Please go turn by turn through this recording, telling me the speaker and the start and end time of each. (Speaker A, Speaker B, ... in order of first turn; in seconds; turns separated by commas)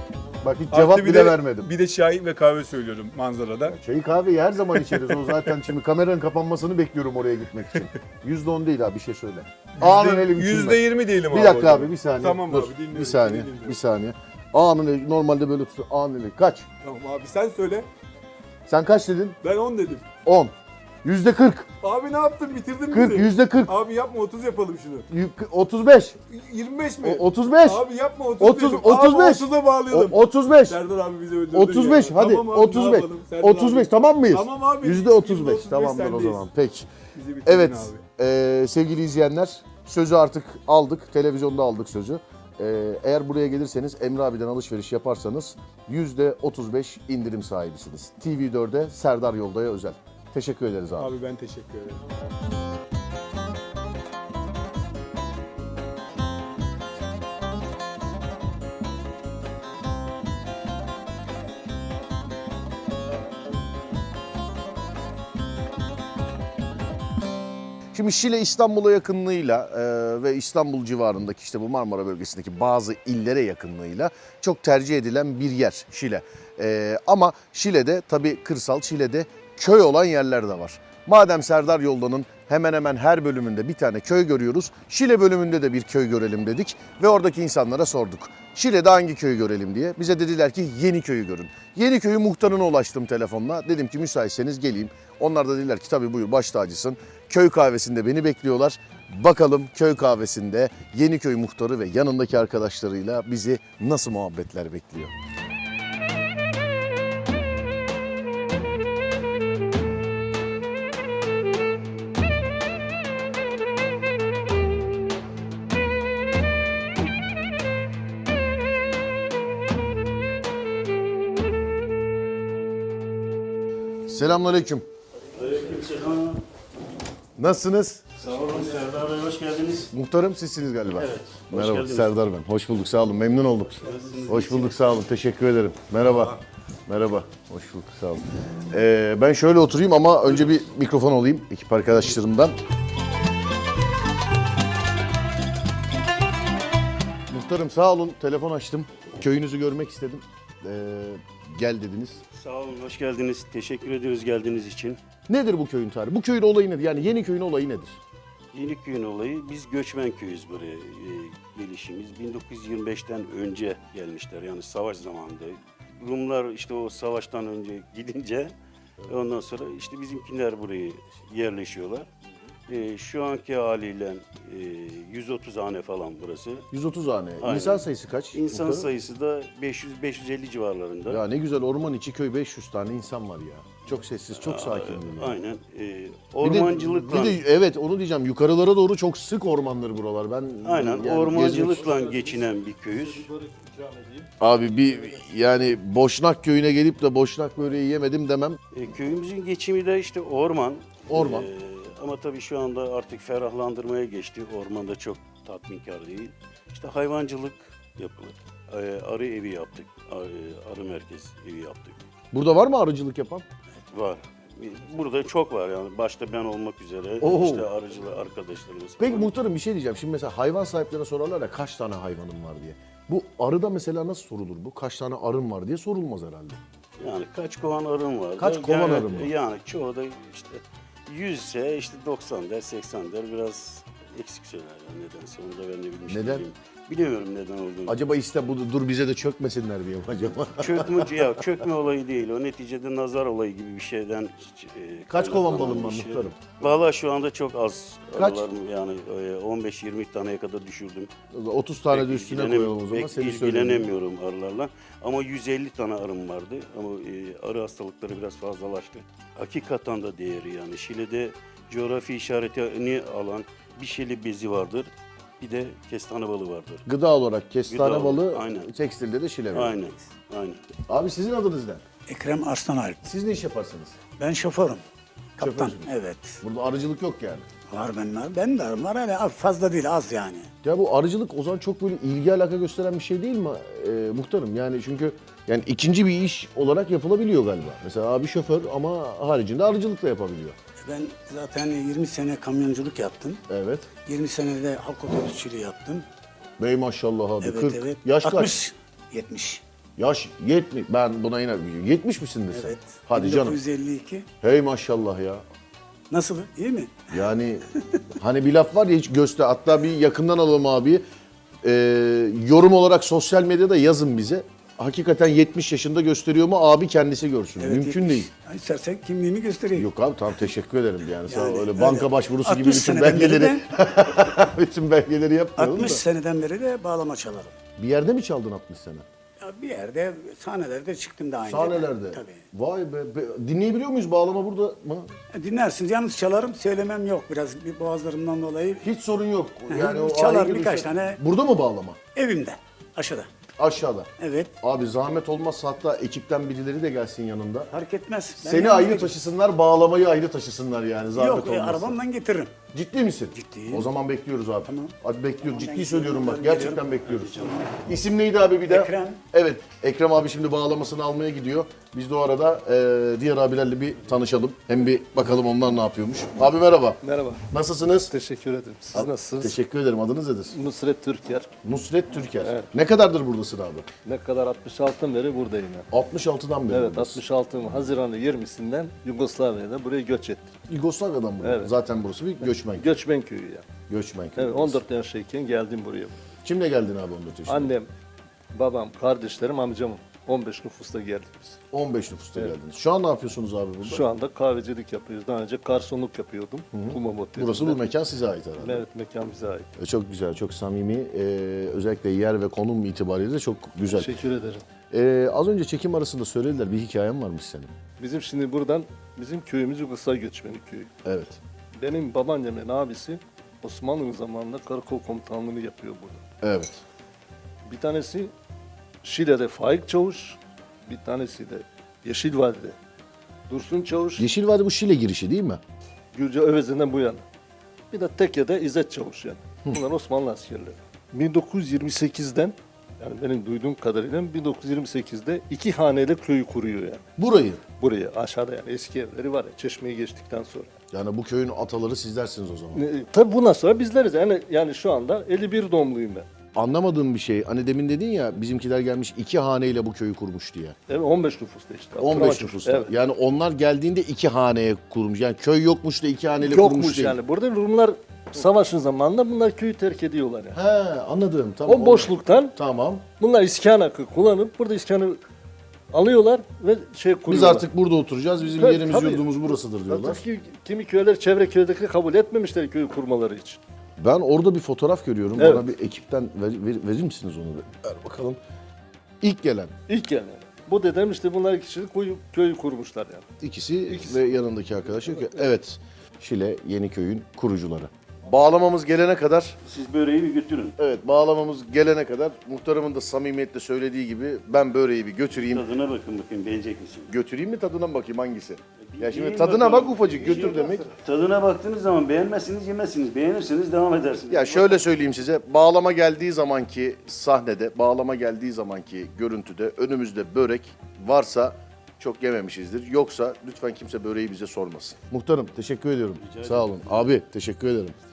Speaker A: 0.4-1.7, Speaker B: 0.7-3.8, Speaker A: 3.7-16.7, Speaker B: 4.7-5.6, Speaker B: 9.7-13.8, Speaker B: 16.8-17.9, Speaker A: 18.7-19.4, Speaker B: 19.4-20.1, Speaker A: 20.2-21.7, Speaker B: 21.8-25.1, Speaker A: 22.9-23.8, Speaker A: 25.1-26.2, Speaker B: 26.3-36.5, Speaker A: 27.0-27.9, Speaker A: 28.4-30.8, Speaker A: 31.5-36.9, Speaker B: 37.1-38.0, Speaker A: 37.5-51.1, Speaker B: 51.0-52.0, Speaker A: 67.9-105.1, Speaker A: 124.1-124.9, Speaker C: 125.3-126.4, Speaker A: 127.4-128.1, Speaker C: 128.2-129.9, Speaker A: 129.9-142.6, Speaker C: 131.0-132.1, Speaker C: 133.8-134.8, Speaker A: 147.3-152.2, Speaker C: 152.3-155.0, Speaker A: 155.3-158.0, Speaker C: 158.5-168.5, Speaker C: 169.1-172.1, Speaker C: 172.7-176.7, Speaker A: 176.7-178.9, Speaker C: 177.4-181.2, Speaker A: 181.1-185.4, Speaker C: 184.3-187.4, Speaker A: 186.4-191.9, Speaker C: 190.6-193.3, Speaker D: 191.6-195.3, Speaker A: 194.4-198.6, Speaker C: 198.7-212.0, Speaker A: 201.1-201.5, Speaker A: 212.3-213.4, Speaker C: 213.9-219.3, Speaker A: 217.2-217.7, Speaker A: 219.0-226.6, Speaker C: 227.0-238.0, Speaker A: 228.4-229.3, Speaker A: 236.1-236.5, Speaker A: 237.9-241.5, Speaker C: 240.6-251.1, Speaker A: 245.1-246.3, Speaker A: 248.1-248.5, Speaker A: 251.3-253.9, Speaker C: 251.9-266.8, Speaker A: 266.9-269.8, Speaker C: 267.7-268.7, Speaker C: 269.5-270.6, Speaker A: 270.9-271.8, Speaker E: 272.1-273.0, Speaker A: 273.0-274.0, Speaker E: 274.2-274.8, Speaker E: 275.4-276.4, Speaker A: 275.4-275.9, Speaker A: 276.4-277.5, Speaker E: 277.7-280.5, Speaker A: 280.6-290.6, Speaker E: 290.8-293.4, Speaker A: 293.5-293.9, Speaker E: 294.1-296.1, Speaker A: 296.6-298.6, Speaker E: 297.4-299.6, Speaker A: 300.0-303.6, Speaker E: 302.5-304.3, Speaker A: 304.4-305.4, Speaker E: 306.1-307.1, Speaker A: 307.1-311.1, Speaker A: 311.6-318.3, Speaker E: 317.6-319.9, Speaker A: 319.8-326.0, Speaker E: 321.3-323.6, Speaker E: 325.6-327.5, Speaker A: 327.8-329.1, Speaker E: 329.4-332.4, Speaker A: 331.5-335.1, Speaker E: 335.3-338.8, Speaker A: 338.8-342.0, Speaker E: 339.7-341.2, Speaker E: 342.1-343.3, Speaker A: 343.6-347.7, Speaker E: 344.2-344.5, Speaker E: 347.7-349.1, Speaker A: 348.4-352.0, Speaker E: 351.2-352.6, Speaker A: 352.7-368.1, Speaker E: 353.3-353.9, Speaker E: 354.7-357.7, Speaker E: 358.7-359.2, Speaker D: 367.0-367.4, Speaker D: 368.1-369.6, Speaker A: 368.9-370.5, Speaker D: 370.5-371.5, Speaker A: 371.6-373.9, Speaker D: 372.4-372.7, Speaker D: 374.1-375.9, Speaker A: 375.9-377.2, Speaker D: 376.7-380.6, Speaker A: 380.7-382.9, Speaker D: 381.4-381.8, Speaker D: 382.4-383.7, Speaker A: 383.9-384.8, Speaker D: 384.4-386.2, Speaker A: 386.4-387.7, Speaker D: 387.5-387.9, Speaker D: 388.5-391.6, Speaker A: 391.7-394.1, Speaker D: 393.9-397.9, Speaker A: 396.7-398.9, Speaker D: 398.6-399.7, Speaker A: 399.8-404.1, Speaker D: 403.9-404.6, Speaker A: 404.9-407.7, Speaker D: 408.0-410.9, Speaker A: 411.1-411.4, Speaker D: 411.8-416.2, Speaker A: 416.4-416.8, Speaker D: 417.7-418.3, Speaker D: 419.0-422.8, Speaker D: 423.5-424.3, Speaker A: 424.2-425.6, Speaker D: 426.1-427.2, Speaker D: 427.9-437.0, Speaker A: 437.2-437.6, Speaker D: 437.8-440.8, Speaker A: 440.9-442.8, Speaker D: 442.7-446.3, Speaker A: 446.5-450.8, Speaker D: 450.9-452.9, Speaker A: 452.0-457.2, Speaker D: 456.4-460.6, Speaker A: 460.5-463.1, Speaker D: 461.7-462.6, Speaker D: 463.1-465.2, Speaker D: 465.9-467.7, Speaker A: 467.3-470.2, Speaker D: 468.5-473.6, Speaker A: 474.0-478.4, Speaker D: 475.4-475.7, Speaker A: 479.2-479.7, Speaker D: 479.9-483.3, Speaker A: 483.4-489.6, Speaker D: 483.9-485.6, Speaker C: 489.6-490.8, Speaker A: 490.8-495.7, Speaker C: 495.5-497.1, Speaker A: 497.1-500.9, Speaker C: 498.8-504.8, Speaker A: 504.3-518.0, Speaker C: 516.2-517.2